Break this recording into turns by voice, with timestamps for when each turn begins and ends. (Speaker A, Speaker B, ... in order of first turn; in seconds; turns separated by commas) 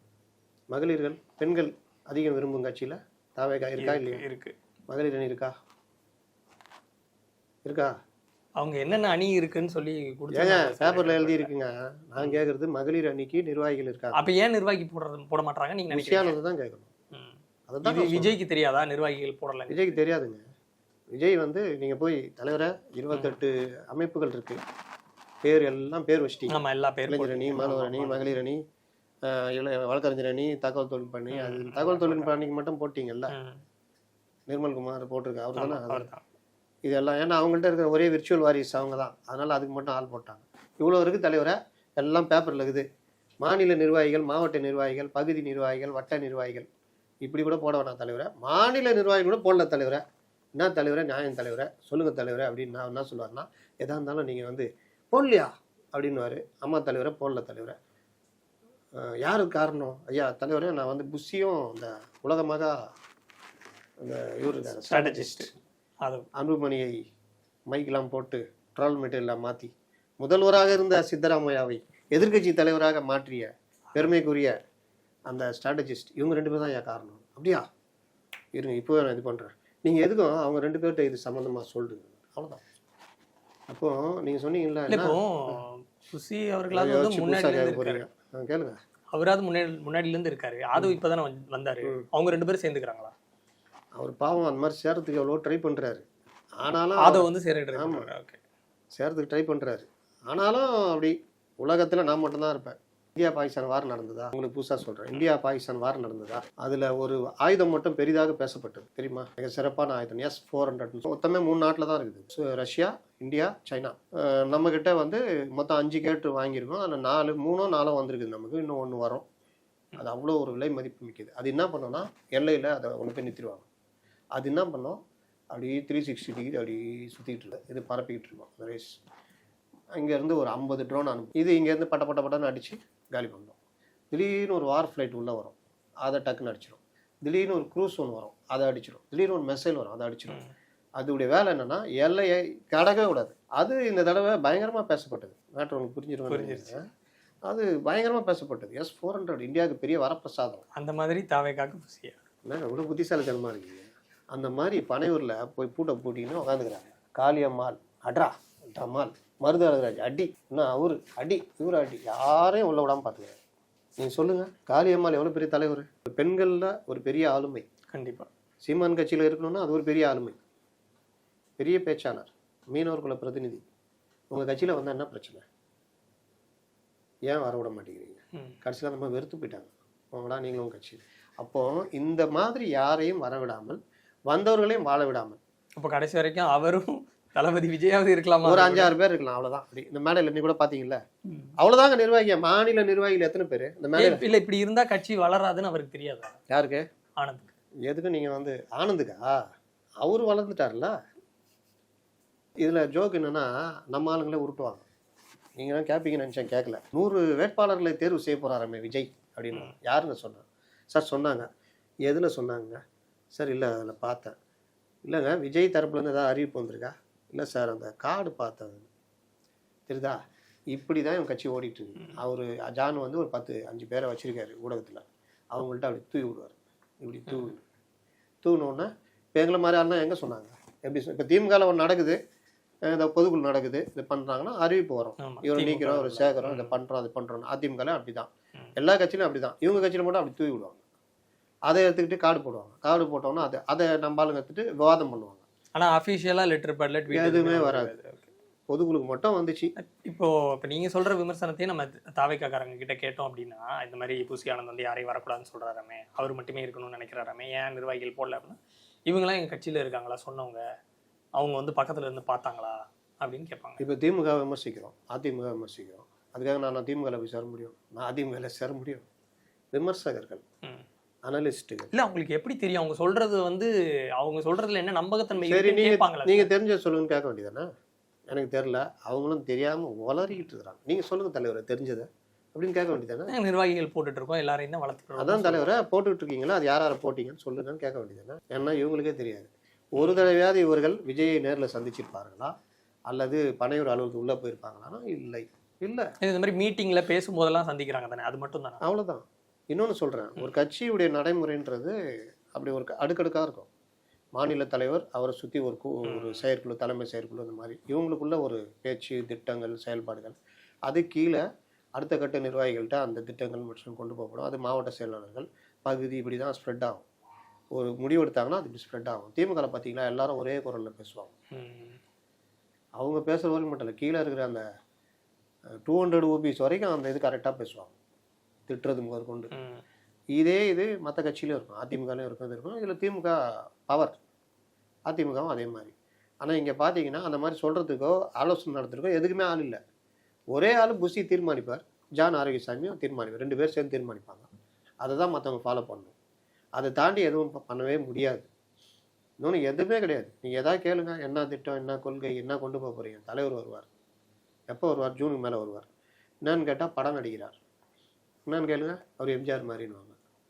Speaker A: 0.7-4.2, Speaker B: 3.8-4.5, Speaker A: 4.9-5.5, Speaker A: 7.7-8.0, Speaker B: 8.6-11.5, Speaker A: 10.3-14.2, Speaker B: 12.2-12.4, Speaker B: 14.2-16.4, Speaker A: 15.9-16.9, Speaker B: 17.1-20.0, Speaker A: 17.7-18.4, Speaker A: 19.7-20.4, Speaker A: 21.1-24.6, Speaker B: 23.1-23.4, Speaker A: 25.4-28.6, Speaker B: 26.5-28.3, Speaker A: 29.2-33.3, Speaker B: 31.3-32.4, Speaker B: 33.3-33.6, Speaker A: 34.5-36.1, Speaker B: 35.6-36.2, Speaker A: 36.9-42.9, Speaker A: 43.4-46.7, Speaker A: 47.2-50.0, Speaker A: 50.6-57.8, Speaker A: 59.0-62.8, Speaker A: 64.0-65.5, Speaker B: 64.7-65.5, Speaker A: 66.3-67.0, Speaker A: 67.7-74.6, Speaker A: 75.3-77.7, Speaker A: 78.5-82.6, Speaker A: 83.7-85.6, Speaker B: 84.9-88.0, Speaker A: 86.7-88.8, Speaker B: 89.1-93.1, Speaker A: 94.0-96.0, Speaker A: 96.6-98.1, Speaker B: 97.0-98.4, Speaker A: 99.0-119.2, Speaker A: 120.0-123.7, Speaker A: 124.3-125.0, Speaker A: 125.5-128.9, Speaker A: 130.0-133.6, Speaker A: 134.1-140.4, Speaker A: 141.0-146.8, Speaker B: 146.3-146.8, Speaker A: 147.5-150.7, Speaker B: 150.8-152.2, Speaker A: 152.5-163.4, Speaker A: 164.0-167.7, Speaker B: 167.9-168.3, Speaker A: 168.7-170.4, Speaker A: 171.6-173.6, Speaker A: 174.3-175.4, Speaker A: 177.3-185.4, Speaker B: 185.8-188.9, Speaker A: 188.4-191.0, Speaker B: 191.3-191.6, Speaker A: 191.6-194.2, Speaker B: 194.0-196.4, Speaker A: 196.5-196.8, Speaker B: 197.2-197.5, Speaker A: 197.9-199.4, Speaker A: 200.0-200.9, Speaker A: 202.6-204.8, Speaker A: 205.6-211.5, Speaker A: 212.1-212.8, Speaker A: 213.3-214.4, Speaker A: 215.1-218.9, Speaker A: 219.9-220.2, Speaker A: 220.7-227.6, Speaker A: 228.4-232.2, Speaker A: 232.9-240.8, Speaker B: 235.2-236.8, Speaker A: 241.7-245.4, Speaker B: 245.8-248.3, Speaker A: 247.1-247.9, Speaker A: 248.7-249.7, Speaker B: 249.8-260.6, Speaker B: 261.4-263.8, Speaker A: 263.8-269.1, Speaker A: 269.7-270.4, Speaker A: 271.2-271.9, Speaker B: 271.9-276.5, Speaker A: 275.4-277.7, Speaker A: 278.3-283.3, Speaker B: 283.3-285.7, Speaker A: 285.2-292.6, Speaker B: 290.0-290.2, Speaker A: 293.1-296.1, Speaker B: 296.2-298.8, Speaker A: 298.8-301.9, Speaker A: 302.6-303.7, Speaker A: 304.4-310.4, Speaker B: 306.1-306.4, Speaker A: 310.9-311.4, Speaker A: 312.0-317.0, Speaker A: 317.7-321.3, Speaker B: 321.5-322.0, Speaker A: 323.0-324.6, Speaker A: 325.9-327.9, Speaker A: 328.7-329.5, Speaker B: 329.5-329.8, Speaker A: 330.3-334.1, Speaker A: 335.1-339.8, Speaker A: 340.5-344.5, Speaker A: 345.0-346.1, Speaker A: 346.8-348.5, Speaker A: 349.4-353.9, Speaker A: 354.7-355.9, Speaker A: 356.4-357.6, Speaker A: 358.5-360.2